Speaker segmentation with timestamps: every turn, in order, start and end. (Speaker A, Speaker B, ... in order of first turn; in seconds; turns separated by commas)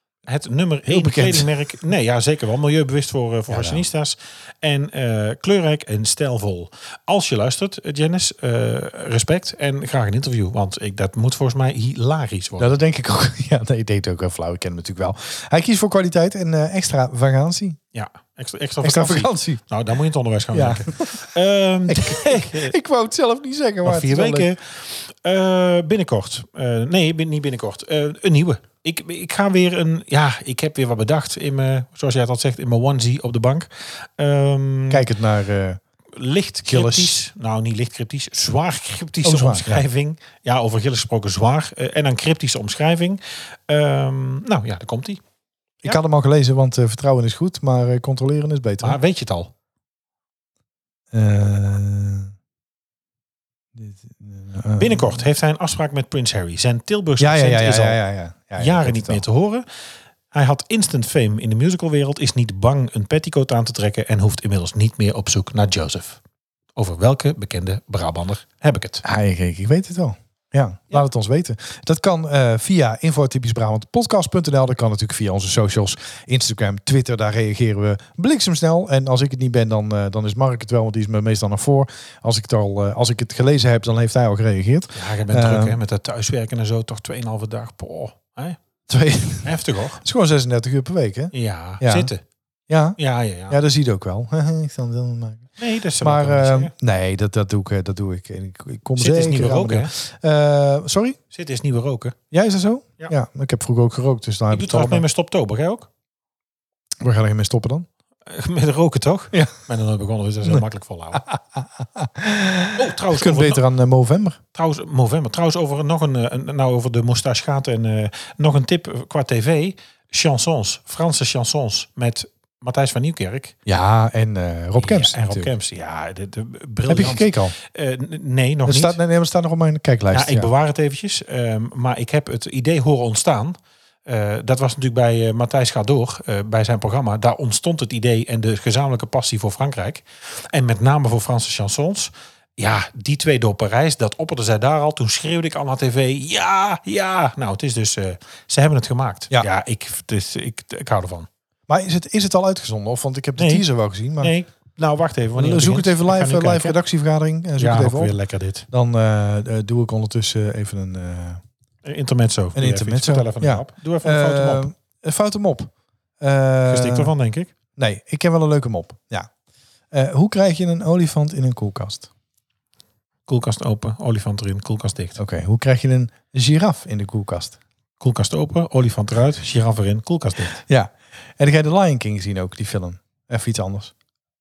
Speaker A: 0.2-12.7, Speaker B: 0.8-1.5, Speaker B: 3.5-3.8, Speaker B: 12.6-17.8, Speaker A: 17.9-22.7, Speaker B: 18.8-19.6, Speaker B: 20.5-21.3, Speaker B: 21.9-24.5, Speaker A: 23.8-35.1, Speaker B: 34.9-35.8, Speaker A: 36.1-45.2, Speaker B: 36.6-37.1, Speaker B: 39.2-39.8, Speaker B: 45.8-49.0, Speaker A: 48.8-49.5, Speaker B: 51.1-52.3, Speaker B: 53.7-55.3, Speaker A: 54.8-58.0, Speaker B: 57.2-59.2, Speaker A: 58.6-59.6, Speaker A: 60.3-66.2, Speaker A: 66.8-69.0, Speaker B: 69.0-85.8, Speaker A: 84.9-88.6, Speaker B: 88.9-92.1, Speaker A: 89.4-90.0, Speaker A: 91.3-92.2, Speaker B: 92.7-101.2, Speaker A: 93.0-93.6, Speaker A: 95.6-96.7, Speaker A: 99.0-99.9, Speaker A: 101.3-102.2, Speaker B: 102.3-105.0, Speaker A: 104.5-105.9, Speaker B: 107.0-107.9, Speaker A: 108.3-111.2, Speaker B: 111.1-114.4, Speaker A: 112.8-113.6, Speaker A: 114.5-123.5, Speaker B: 123.7-125.5, Speaker A: 124.8-129.0, Speaker B: 126.8-127.5, Speaker B: 128.7-130.5, Speaker A: 130.1-151.3, Speaker B: 151.7-154.3, Speaker A: 153.4-153.7, Speaker A: 154.2-156.8, Speaker B: 155.3-158.1, Speaker A: 157.6-158.7, Speaker B: 158.7-161.4, Speaker A: 161.8-164.7, Speaker B: 162.5-167.1, Speaker A: 166.7-167.5, Speaker B: 167.8-169.3, Speaker B: 169.9-172.1, Speaker A: 173.3-175.2, Speaker B: 175.2-177.6, Speaker A: 178.0-180.6, Speaker B: 180.7-183.9